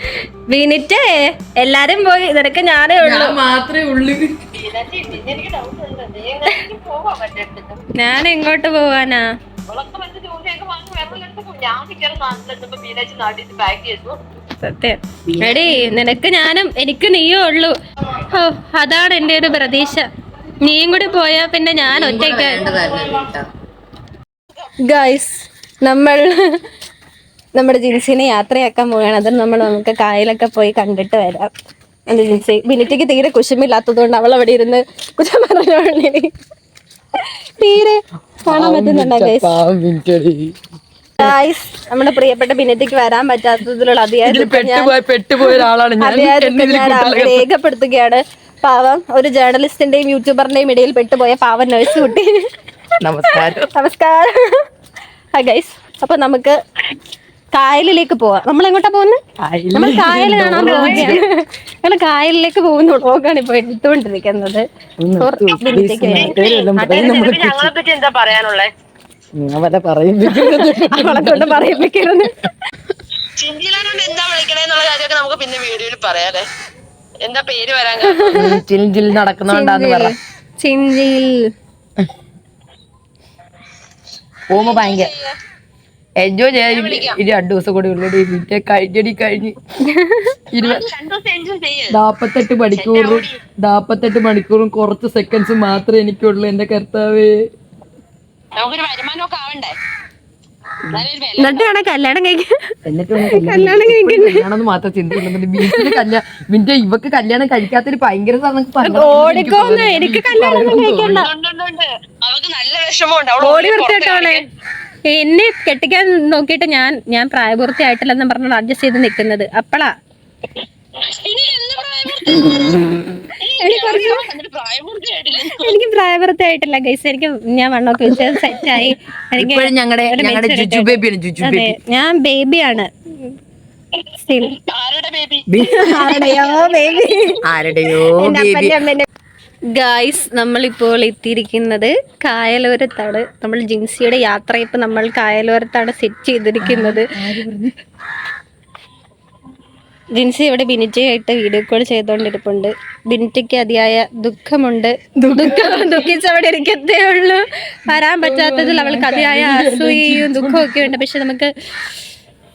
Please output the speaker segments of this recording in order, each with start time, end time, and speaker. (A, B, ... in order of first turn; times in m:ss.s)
0:00.5-0:03.4 A
0:03.0-0:04.4 B
0:04.5-0:07.8 C
0:08.0-0:09.2 A
0:09.7-0:14.2 C
0:14.6-0:20.1 A
0:15.3-0:15.9 B
0:20.6-0:22.6 A
0:21.9-0:23.5 B
0:24.8-0:26.6 A
0:27.6-0:31.5 A
0:32.1-0:36.3 A
0:37.2-0:39.6 A
0:38.5-0:40.6 B
0:41.2-0:52.5 A
0:44.3-0:47.4 B
0:53.0-0:53.7 B
0:53.3-0:54.6 A
0:55.4-0:56.6 A
0:57.5-0:59.2 A
0:59.4-1:01.2 B
0:59.7-1:04.6 A
1:00.6-1:01.2 C
1:05.0-1:07.7 B
1:05.2-1:07.1 A
1:06.1-1:08.7 C
1:09.4-1:11.7 B
1:10.2-1:12.5 A
1:13.4-1:16.5 C
1:17.2-1:18.5 C
1:18.0-1:18.5 A
1:18.3-1:20.1 B
1:19.5-1:21.3 A
1:24.5-1:25.1 B
1:24.6-1:25.4 C
1:26.2-1:29.6 B
1:26.7-1:27.2 C
1:29.9-1:30.4 A
1:30.5-1:30.9 B
1:30.6-1:32.0 C
1:31.9-1:37.4 B
1:32.8-1:33.4 C
1:38.6-1:39.8 C
1:40.9-1:41.7 C
1:41.4-1:42.6 A
1:42.9-1:51.2 B
1:43.2-1:44.4 A
1:45.6-1:46.0 A
1:48.8-1:51.3 A
1:51.0-1:54.4 C
1:53.4-1:54.4 A
1:55.1-1:59.9 A
2:01.0-2:02.8 C
2:03.4-2:05.8 C
2:03.6-2:04.3 A
2:05.5-2:13.4 A
2:09.4-2:11.8 B
2:14.2-2:14.6 A
2:14.7-2:15.5 C
2:15.5-2:16.1 B
2:15.6-2:17.4 A
2:16.3-2:16.9 C
2:17.5-2:18.8 B
2:18.1-2:19.1 A
2:19.8-2:27.1 A
2:26.6-2:27.8 B
2:30.2-2:41.5 A
2:35.2-2:36.1 B
2:38.0-2:40.9 B